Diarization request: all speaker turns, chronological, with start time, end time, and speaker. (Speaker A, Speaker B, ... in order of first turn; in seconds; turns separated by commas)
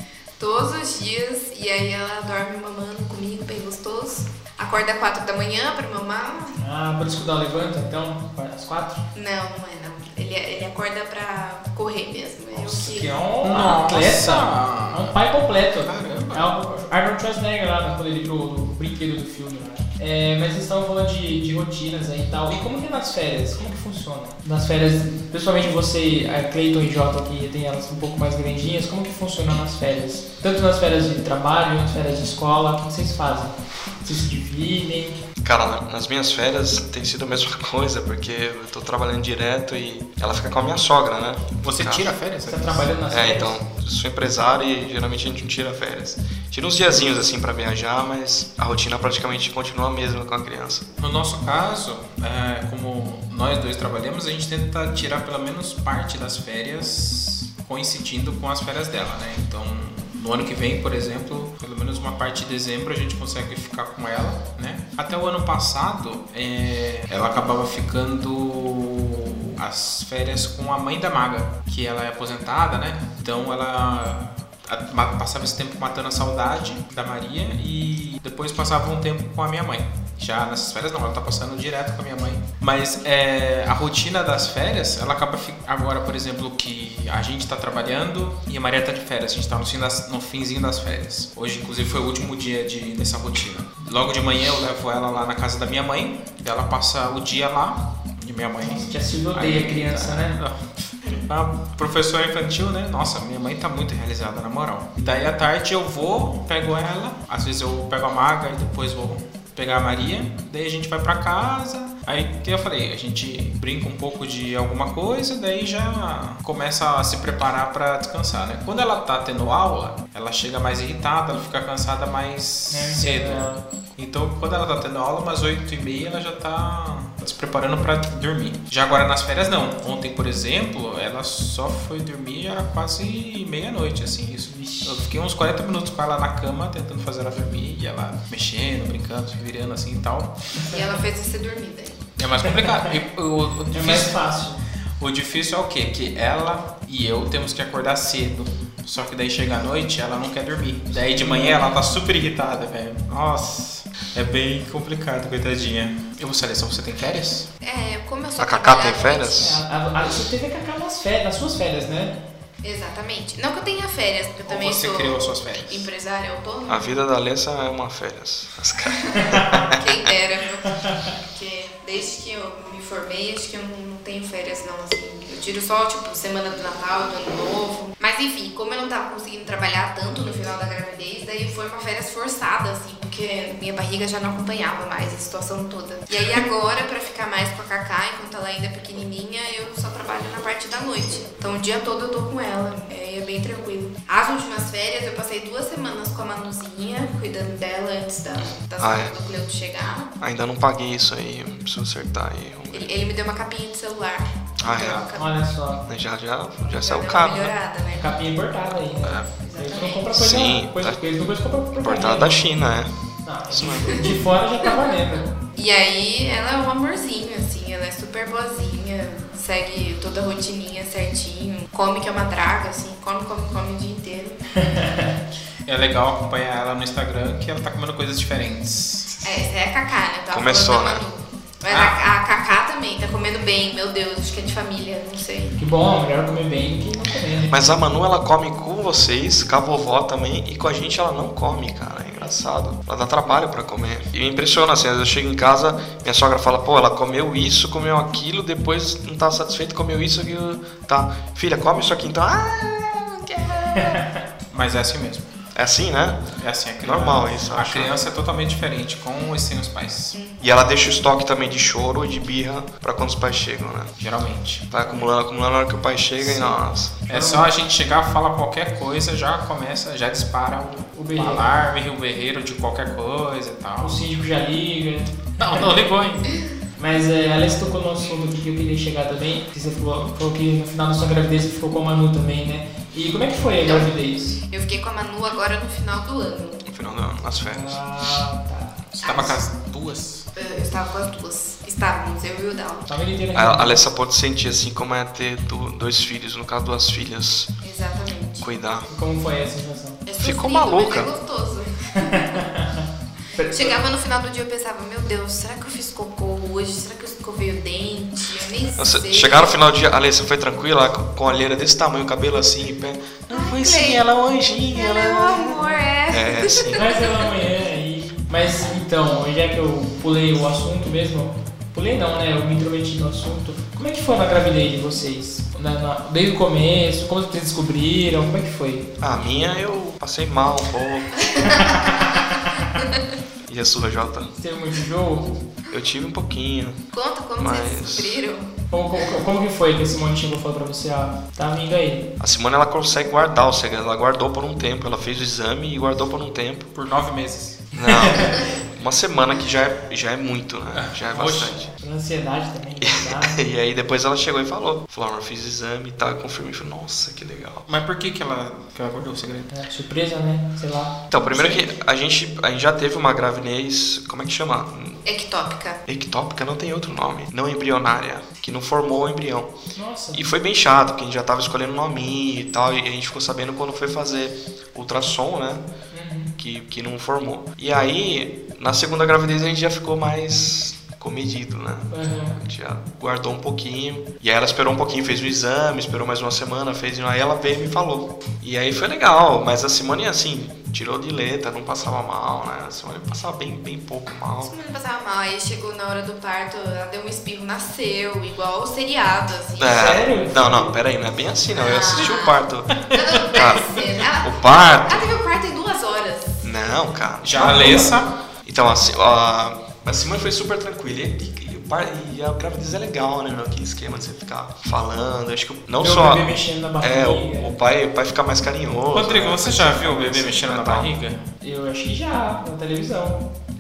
Speaker A: 0.4-6.6, Speaker B: 6.6-9.0, Speaker A: 9.1-13.1, Speaker B: 12.5-35.2, Speaker C: 13.4-15.1, Speaker C: 15.8-16.5, Speaker D: 35.4-42.1, Speaker C: 41.6-42.9, Speaker B: 42.5-43.6, Speaker D: 43.1-50.9, Speaker C: 51.0-140.7, Speaker B: 98.6-100.4, Speaker B: 122.7-123.6, Speaker B: 134.5-134.9, Speaker A: 140.7-142.0, Speaker C: 142.2-144.2, Speaker B: 143.7-144.6, Speaker C: 145.0-157.5, Speaker B: 151.2-151.9, Speaker A: 157.6-159.4, Speaker D: 158.4-159.6, Speaker B: 159.4-162.2, Speaker A: 162.6-167.0, Speaker C: 164.4-165.9, Speaker D: 166.7-169.8, Speaker A: 169.8-200.1, Speaker D: 198.4-199.1, Speaker D: 200.2-202.9, Speaker A: 202.7-205.3, Speaker D: 204.6-205.1, Speaker C: 204.7-205.1, Speaker B: 205.2-205.8, Speaker D: 205.9-207.6, Speaker A: 206.6-208.1, Speaker B: 207.9-212.5, Speaker C: 209.0-209.3, Speaker A: 209.5-210.1, Speaker D: 210.1-211.0, Speaker D: 211.8-212.9, Speaker B: 213.2-215.3, Speaker D: 213.5-214.1, Speaker A: 215.5-224.5, Speaker B: 224.6-225.1, Speaker C: 225.7-229.1, Speaker A: 229.2-235.6, Speaker D: 230.3-231.0, Speaker C: 231.7-232.0, Speaker B: 235.6-237.5, Speaker D: 237.5-253.6, Speaker A: 253.5-254.0, Speaker C: 254.5-255.3, Speaker D: 255.5-256.2, Speaker C: 256.4-260.2, Speaker D: 256.8-257.9, Speaker A: 260.1-260.5, Speaker D: 260.4-263.9, Speaker C: 264.0-264.7, Speaker D: 264.7-267.0, Speaker C: 266.2-274.0, Speaker B: 267.1-267.5, Speaker B: 270.9-271.6, Speaker B: 273.8-275.7, Speaker C: 275.4-276.3, Speaker B: 276.8-284.4, Speaker A: 283.6-283.9, Speaker A: 284.5-286.6, Speaker D: 286.7-287.8, Speaker B: 287.4-288.9, Speaker A: 289.0-289.4, Speaker C: 289.0-290.3, Speaker A: 290.4-292.9, Speaker B: 292.9-293.8, Speaker D: 293.3-297.5, Speaker A: 297.6-298.5, Speaker D: 298.4-298.9, Speaker B: 298.9-300.0, Speaker A: 300.1-302.0, Speaker D: 300.2-301.1, Speaker B: 302.0-302.8, Speaker B: 303.3-303.8, Speaker A: 303.4-309.5, Speaker D: 308.8-316.8, Speaker A: 313.3-314.0, Speaker A: 314.7-317.0, Speaker B: 316.7-328.9, Speaker D: 329.0-331.1, Speaker A: 331.2-331.8, Speaker B: 331.6-332.2, Speaker D: 333.5-334.3, Speaker B: 334.4-335.4, Speaker D: 335.7-336.8, Speaker A: 336.9-338.5, Speaker D: 337.4-338.2, Speaker B: 338.7-342.1, Speaker D: 342.2-346.7, Speaker C: 346.8-347.7, Speaker D: 347.8-351.7, Speaker B: 347.9-348.4, Speaker C: 350.8-351.5, Speaker B: 351.8-353.4, Speaker D: 352.8-357.7, Speaker C: 357.7-359.5, Speaker B: 359.5-361.5, Speaker D: 361.1-365.0, Speaker A: 365.1-365.8, Speaker D: 365.9-369.5, Speaker B: 369.8-370.2, Speaker D: 370.1-375.6, Speaker B: 375.9-376.3, Speaker D: 376.4-394.5, Speaker B: 381.9-382.4, Speaker A: 394.4-400.0, Speaker D: 399.6-402.8, Speaker B: 399.7-400.8, Speaker A: 401.6-406.5, Speaker D: 403.3-405.1, Speaker D: 406.4-420.9, Speaker C: 407.2-408.1, Speaker B: 415.8-417.5, Speaker C: 418.9-421.3, Speaker B: 421.4-423.2